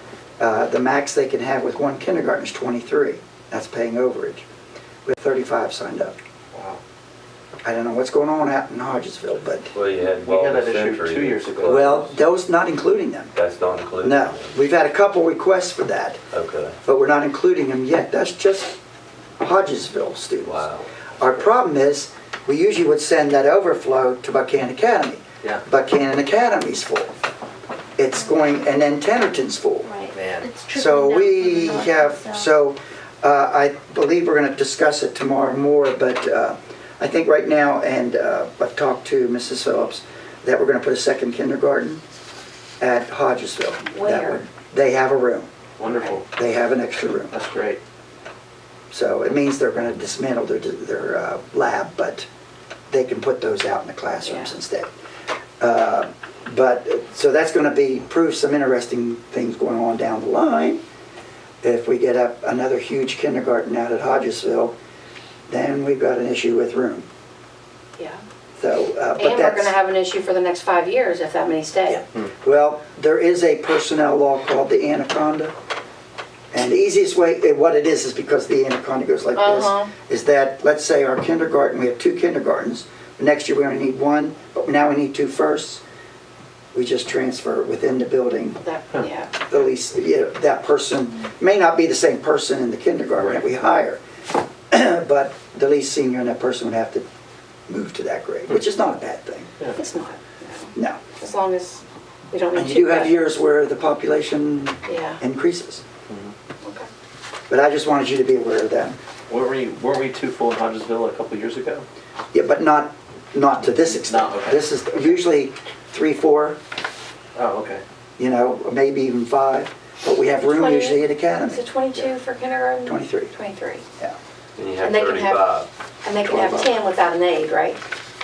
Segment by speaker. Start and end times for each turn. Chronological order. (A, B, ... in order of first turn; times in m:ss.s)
0:00.4-0:04.4 A
0:05.1-0:06.2 A
0:06.5-0:06.8 B
0:07.6-0:09.7 A
0:09.7-0:12.1 C
0:10.2-0:12.1 B
0:11.6-0:13.3 A
0:13.4-0:14.6 C
0:14.0-0:16.2 A
0:16.3-0:16.8 C
0:16.8-0:18.8 A
0:19.4-0:20.7 A
0:20.4-0:20.9 C
0:21.2-0:27.1 A
0:28.0-0:29.9 A
0:29.9-0:32.5 D
0:30.1-0:30.5 B
0:30.7-0:42.0 A
0:42.8-0:45.5 A
0:43.9-0:44.4 E
0:45.8-0:46.3 B
0:46.3-0:47.4 A
0:47.3-0:47.8 B
0:48.9-0:52.3 A
0:52.9-0:54.9 A
0:54.2-0:54.5 E
0:55.6-1:00.8 A
1:01.6-1:04.8 A
1:05.5-1:07.1 A
1:08.6-1:09.7 A
1:09.2-1:12.0 E
1:11.9-1:15.5 A
1:16.5-1:25.8 A
1:19.4-1:19.9 E
1:26.7-1:28.6 A
1:28.6-1:29.4 E
1:29.5-1:34.0 A
1:34.7-1:37.1 A
1:37.7-1:39.5 A
1:39.8-1:43.3 E
1:42.6-1:45.8 A
1:44.8-1:45.2 E
1:46.1-1:46.3 B
1:46.6-1:46.9 E
1:47.5-1:49.0 A
1:49.3-1:51.8 B
1:52.3-1:56.6 A
1:54.0-1:55.2 B
1:57.4-1:57.8 B
1:58.2-2:01.6 A
2:00.4-2:03.8 E
2:02.8-2:03.4 A
2:04.6-2:05.7 C
2:04.8-2:05.5 E
2:06.0-2:07.8 E
2:06.3-2:06.7 A